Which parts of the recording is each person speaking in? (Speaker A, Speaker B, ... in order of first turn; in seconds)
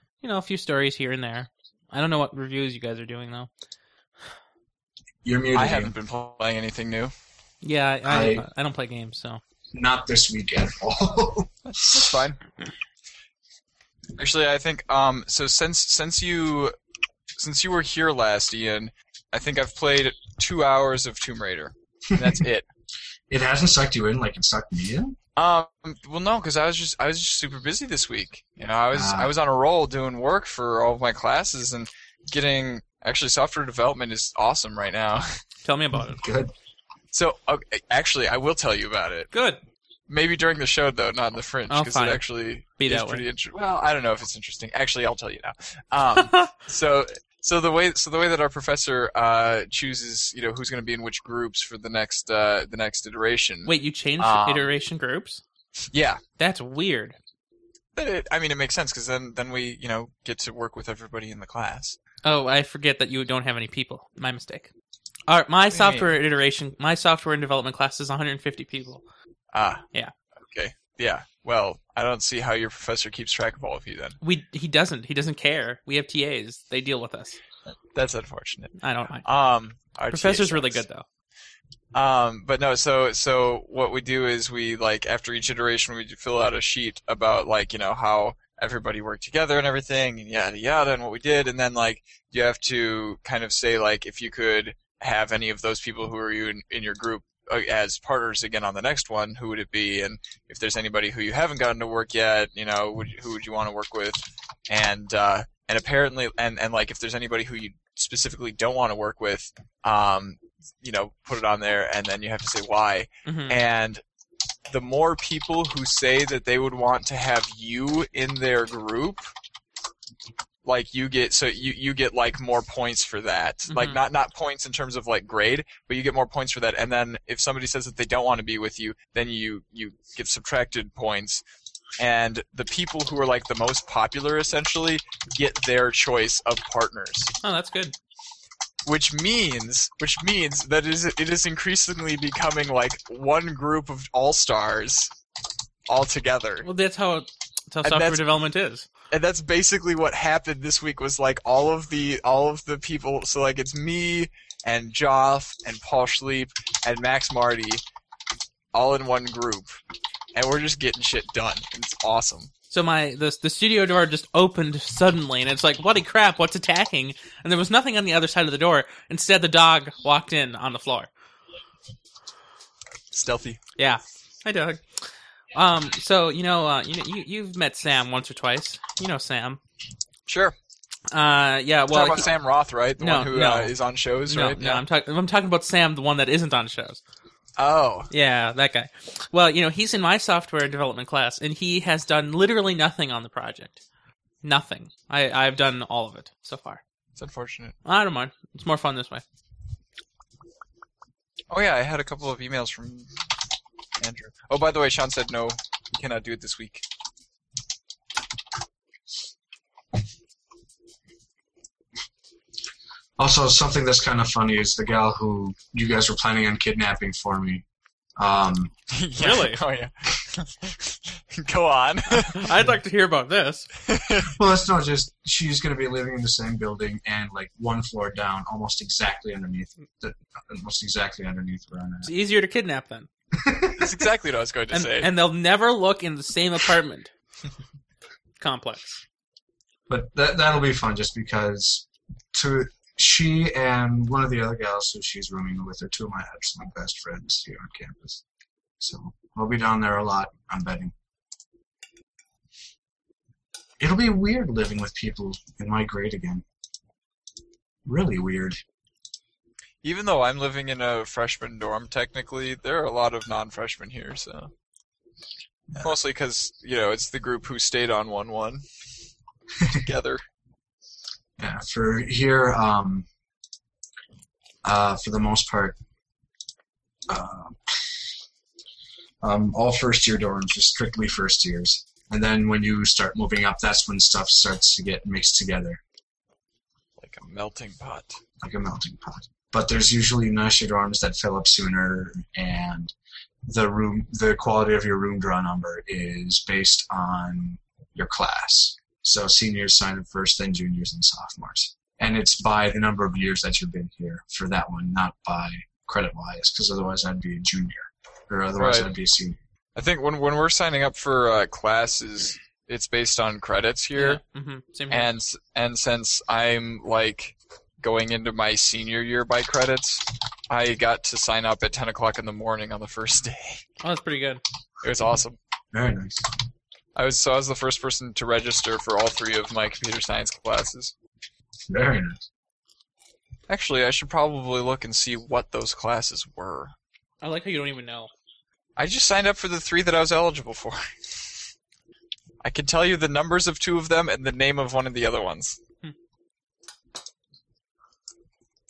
Speaker A: 0.2-3.5, 7.6-9.4, 35.6-36.2, 39.3-39.6, 41.7-42.2, 42.8-43.2, 46.2-46.5, 53.7-55.4, 56.4-57.2, 62.2-64.7, 65.3-69.0, 74.2-77.4, 78.8-79.2, 80.1-81.0, 113.2-113.6, 123.7-124.0, 137.4-137.9, 146.6-148.9, 162.7-171.1, 173.8-174.8, 175.5-179.6, 181.1-182.3, 183.0-183.7, 184.3-187.0, 188.1-193.8, 194.4-196.8, 197.8-199.2, 219.2-219.6, 222.1-223.7, 232.0-233.1, 234.7-237.1, 238.4-239.0, 313.9-315.1, 323.8-324.4, 337.2-338.1
Speaker B: 5.2-5.9, 8.1-8.4, 9.7-12.0, 23.3-25.2, 28.9-29.3, 35.9-36.5, 213.2-217.6, 218.2-218.7, 224.3-232.1, 233.3-233.9, 239.9-248.2, 248.8-250.9, 253.8-256.4, 257.9-258.6, 271.4-273.1, 274.6-275.8, 277.1-278.0, 279.2-285.8, 288.4-292.9, 293.4-309.4, 325.7-326.3, 331.7-332.2
Speaker C: 5.5-7.1, 11.7-12.4, 14.2-16.7, 17.4-22.7, 25.4-35.4, 37.1-39.3, 40.1-54.7, 55.9-56.2, 57.9-62.0, 65.7-66.2, 69.5-69.8, 70.5-74.2, 77.7-80.8, 81.9-114.0, 114.7-119.2, 120.6-131.4, 132.0-137.3, 138.8-145.1, 145.9-146.7, 147.8-148.2, 149.1-157.8, 158.7-159.8, 160.3-162.5, 173.1-173.6, 180.3-180.6, 181.9-184.8, 187.6-188.1, 197.2-197.8, 201.5-203.1, 204.0-206.8, 218.9-222.5, 223.9-224.3, 233.8-235.1, 259.8-264.5, 265.8-268.6, 269.7-270.2, 287.0-288.2, 308.6-308.9, 309.8-314.2, 314.9-323.6, 324.8-325.4, 326.9-330.9, 333.5-336.8, 338.8-340.8, 342.4-345.6